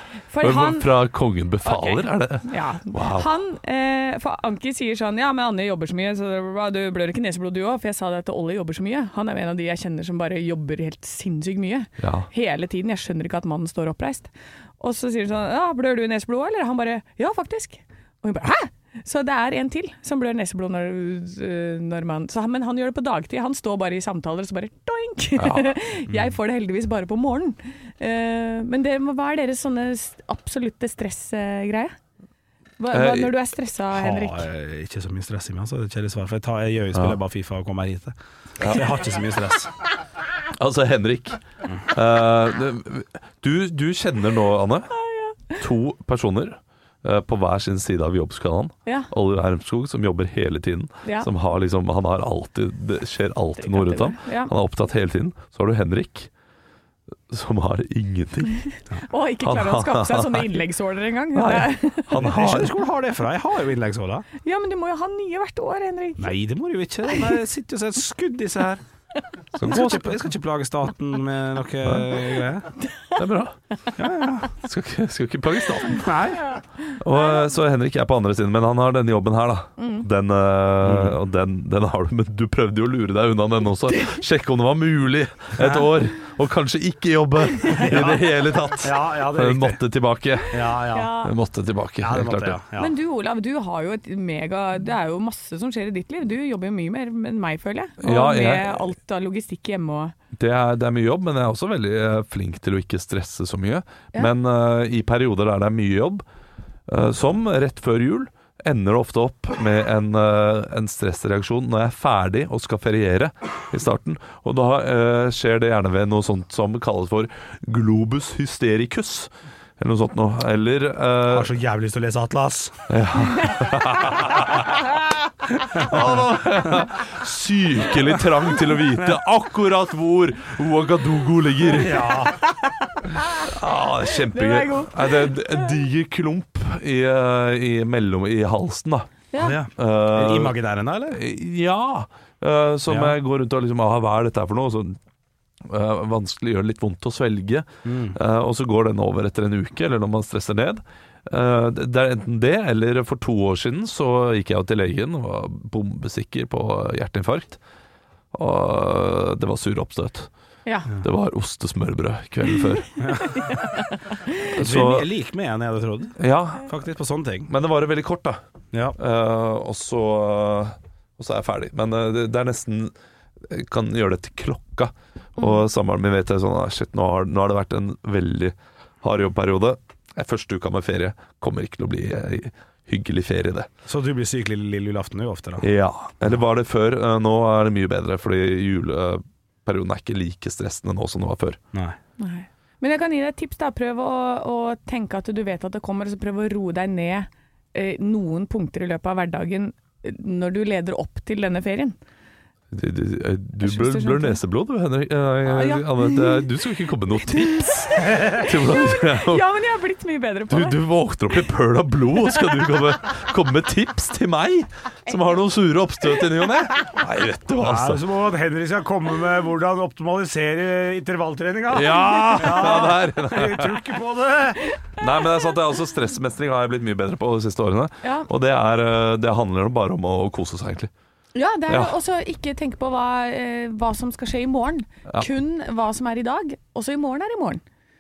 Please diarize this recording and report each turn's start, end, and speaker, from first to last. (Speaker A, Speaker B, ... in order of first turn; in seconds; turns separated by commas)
Speaker A: 0.3-0.9, Speaker B: 0.4-3.3, Speaker A: 1.6-31.9, Speaker B: 12.0-12.3, Speaker B: 25.4-25.7, Speaker A: 32.8-34.5, Speaker B: 32.9-33.3, Speaker C: 33.9-39.7, Speaker B: 38.6-38.9, Speaker B: 40.5-44.9, Speaker A: 45.0-45.6, Speaker B: 45.5-56.3, Speaker A: 51.0-51.3, Speaker A: 53.6-54.5, Speaker B: 57.3-58.6, Speaker A: 58.9-62.1, Speaker B: 59.4-60.6, Speaker B: 61.3-62.7, Speaker C: 62.1-64.2, Speaker A: 64.4-66.3, Speaker C: 66.2-68.8, Speaker B: 69.5-70.2, Speaker C: 69.6-72.7, Speaker B: 73.2-73.6, Speaker C: 74.0-74.5, Speaker B: 74.6-76.1, Speaker C: 76.0-76.4, Speaker B: 77.0-90.6, Speaker A: 79.8-80.0, Speaker C: 80.8-81.2, Speaker C: 85.6-85.9, Speaker C: 87.7-88.3, Speaker C: 88.8-89.8, Speaker C: 90.5-91.1, Speaker A: 90.9-91.3, Speaker B: 91.2-92.6, Speaker C: 92.0-92.9, Speaker A: 92.8-100.1, Speaker B: 98.0-98.8, Speaker B: 100.3-106.2, Speaker B: 106.9-121.5, Speaker C: 121.3-122.8, Speaker B: 122.9-124.8, Speaker B: 125.7-132.2, Speaker C: 131.7-132.3, Speaker A: 132.3-133.4, Speaker B: 133.4-139.1, Speaker A: 134.3-135.7, Speaker A: 139.3-139.6, Speaker C: 139.4-141.2, Speaker B: 139.8-140.6, Speaker B: 141.1-145.0, Speaker C: 142.9-143.2, Speaker B: 145.6-157.6, Speaker C: 147.8-148.2, Speaker B: 158.3-160.3, Speaker B: 161.0-163.0, Speaker C: 163.0-163.3, Speaker A: 163.4-164.1, Speaker B: 164.5-165.1, Speaker C: 164.6-167.5, Speaker B: 166.2-166.7, Speaker B: 167.5-168.4, Speaker B: 169.0-172.9, Speaker B: 173.5-183.7, Speaker C: 183.9-185.7, Speaker B: 185.6-191.6, Speaker A: 192.2-201.9, Speaker B: 202.7-209.4, Speaker A: 203.6-204.4, Speaker A: 205.5-206.5, Speaker A: 207.2-210.8, Speaker B: 210.5-218.0, Speaker A: 215.1-215.3, Speaker C: 217.6-224.7, Speaker B: 221.7-223.8, Speaker A: 222.2-222.9, Speaker B: 225.0-230.9, Speaker A: 225.0-225.5, Speaker A: 228.0-228.3, Speaker A: 231.3-237.6, Speaker B: 231.7-231.9